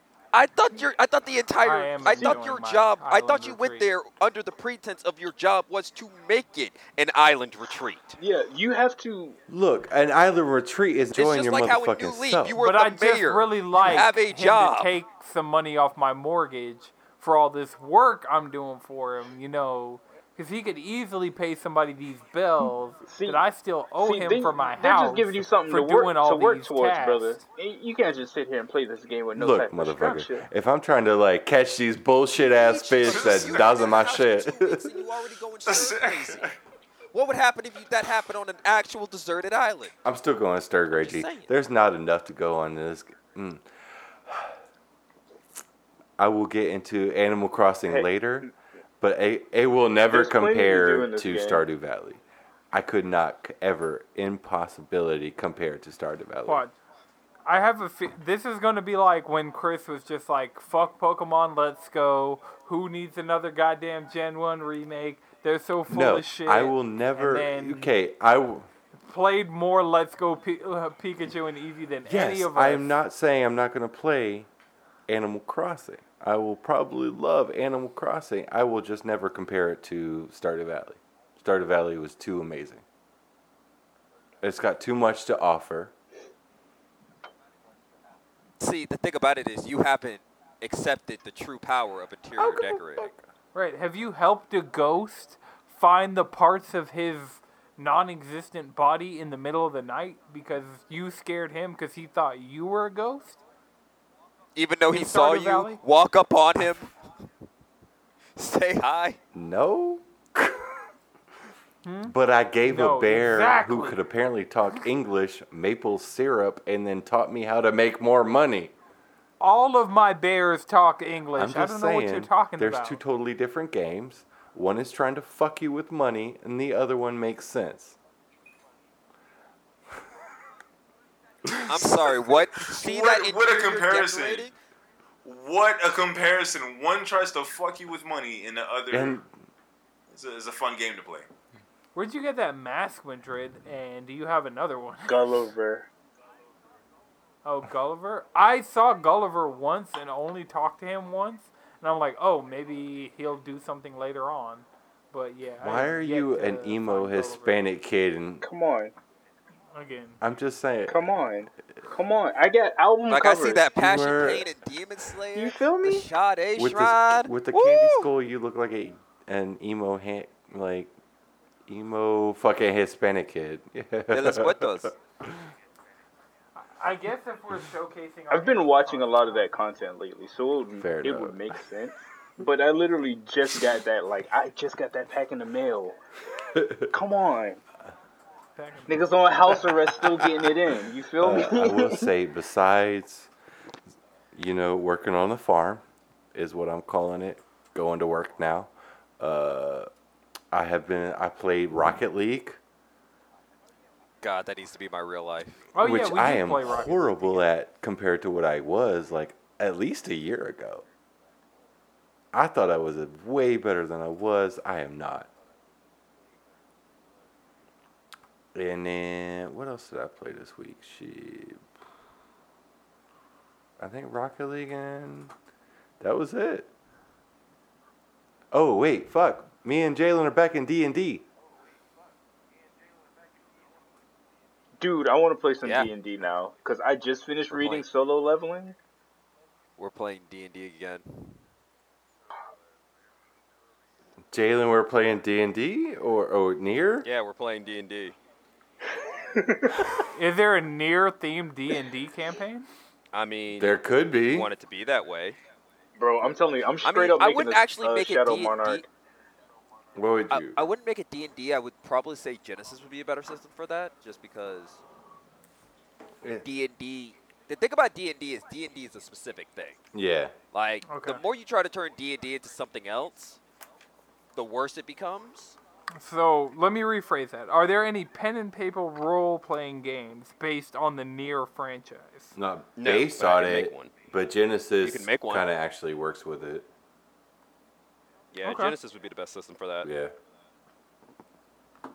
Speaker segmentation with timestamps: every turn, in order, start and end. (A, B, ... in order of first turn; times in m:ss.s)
0:00.3-0:08.2 A
0:01.6-0:03.8 B
0:02.0-0:02.4 C
0:08.2-0:09.4 C
0:09.5-0:12.6 D
0:11.1-0:15.0 A
0:12.6-0:27.4 B
0:23.1-0:23.4 C
0:24.0-0:30.5 C
0:29.4-0:34.9 D
0:32.5-0:36.5 A
0:33.1-0:34.2 E
0:35.7-0:36.6 E
0:37.1-0:39.9 A
0:40.0-0:43.7 D
0:40.9-0:41.5 A
0:44.3-0:44.6 D
0:46.2-0:52.2 D
0:47.9-0:48.5 C
0:50.1-0:51.6 C
0:52.7-0:56.6 D
0:56.5-0:56.8 B
0:57.5-1:07.9 B
1:05.9-1:08.7 D
1:09.0-1:13.0 B
1:12.1-1:14.5 D
1:15.1-1:22.8 D
1:24.4-1:25.9 D
1:28.6-1:33.1 A
1:32.4-1:43.4 B
1:44.6-1:47.0 A
1:44.9-1:45.8 B
1:48.4-1:49.2 A
1:49.3-1:50.9 D
1:51.8-1:54.0 B
1:52.1-1:58.7 D
1:59.4-2:03.0 B
2:01.4-2:08.0 D
2:11.7-2:14.6 A
2:12.6-2:14.5 E
2:15.2-2:19.2 E
2:18.9-2:19.3 D
2:20.1-2:21.3 E
2:22.0-2:25.3 B
2:25.1-2:25.9 C
2:27.4-2:37.6 B
2:35.6-2:38.4 D
2:38.4-2:38.9 C
2:39.7-2:40.2 B
2:40.2-2:41.0 D
2:40.9-2:43.7 C
2:43.1-2:48.1 A
2:43.8-2:44.5 D
2:45.3-2:46.1 C
2:46.6-2:50.9 D
2:51.7-2:54.8 D
2:54.1-2:55.0 A
2:56.6-2:59.5 B
2:58.3-3:06.0 C
3:00.8-3:01.4 D
3:06.9-3:07.6 C
3:08.6-3:09.0 B
3:08.9-3:12.1 C
3:11.2-3:13.3 D
3:14.3-3:15.8 D
3:16.3-3:19.9 D
3:20.5-3:22.6 D
3:24.2-3:25.6 A
3:25.7-3:27.4 B
3:25.8-3:30.8 D
3:32.3-3:35.3 D
3:38.5-3:41.8 D
3:43.8-3:45.3 D
3:46.0-3:46.7 D
3:48.5-3:51.3 D
3:54.8-3:58.8 C
3:55.6-3:55.9 A
3:57.5-3:57.8 A
3:59.8-4:01.4 A
4:04.3-4:07.1 D
4:07.0-4:08.2 A
4:09.3-4:09.8 C
4:10.1-4:12.7 B
4:13.1-4:15.4 A
4:13.6-4:14.5 D
4:16.0-4:18.9 C
4:16.8-4:18.8 A
4:20.0-4:20.7 D
4:20.3-4:24.8 A
4:26.2-4:26.5 D
4:26.4-4:29.8 A
4:29.9-4:30.4 D
4:30.5-4:33.4 A
4:30.9-4:31.2 B
4:34.4-4:35.6 A
4:36.0-4:42.4 B
4:42.4-4:46.7 D
4:42.8-4:43.9 A
4:44.8-4:45.5 A
4:48.3-4:49.9 A
4:48.4-4:48.8 B
4:49.8-4:50.1 D